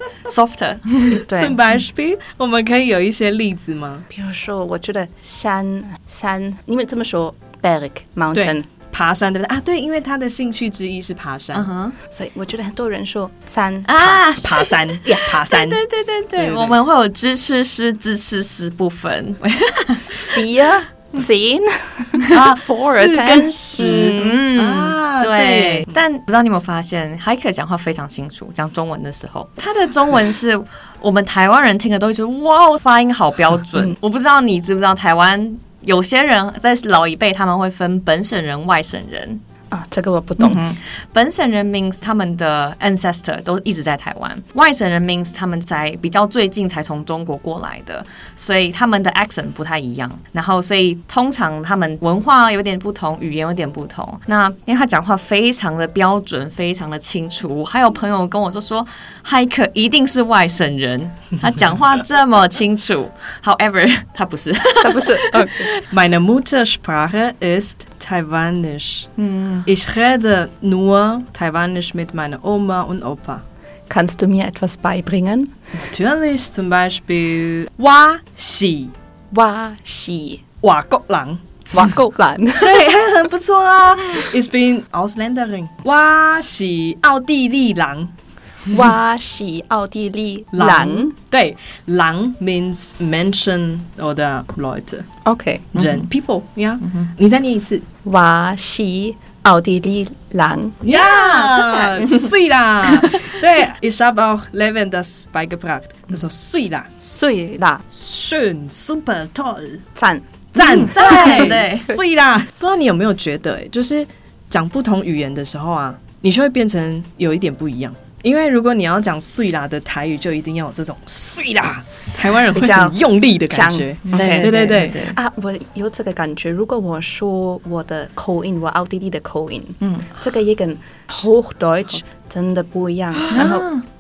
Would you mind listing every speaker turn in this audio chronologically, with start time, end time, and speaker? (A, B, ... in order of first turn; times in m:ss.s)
0:00.2-0:01.2 A
0:01.3-0:01.6 B
0:01.3-0:04.1 C
0:04.1-0:08.7 B
0:08.4-0:11.7 C
0:11.5-0:12.0 A
0:12.1-0:14.2 B
0:13.8-0:20.4 A
0:14.4-0:15.8 C
0:16.4-0:16.8 C
0:20.3-0:24.4 B
0:22.3-0:26.0 C
0:24.0-0:39.4 A
0:39.7-0:40.7 B
0:40.4-0:40.8 C
0:41.1-1:05.8 A
1:04.8-1:05.7 B
1:05.9-1:09.1 C
1:09.2-1:09.7 A
1:09.7-1:13.4 C
1:13.9-1:15.5 B
1:15.8-1:18.9 C
1:19.3-1:20.4 B
1:20.6-1:21.4 C
1:21.7-1:22.9 B
1:22.6-1:28.1 C
1:28.7-1:31.1 B
1:30.5-1:35.1 C
1:35.2-1:35.8 B
1:35.7-1:37.8 C
1:35.8-1:36.1 A
1:38.0-1:40.9 B
1:40.8-1:46.9 C
1:40.9-1:42.3 A
1:47.0-1:47.8 B
1:47.9-1:49.8 C
1:50.0-1:51.4 B
1:50.5-2:05.0 C
1:50.6-1:51.9 A
2:02.5-2:13.7 B
2:04.1-2:05.2 A
2:09.8-2:10.1 A
2:13.3-2:13.8 A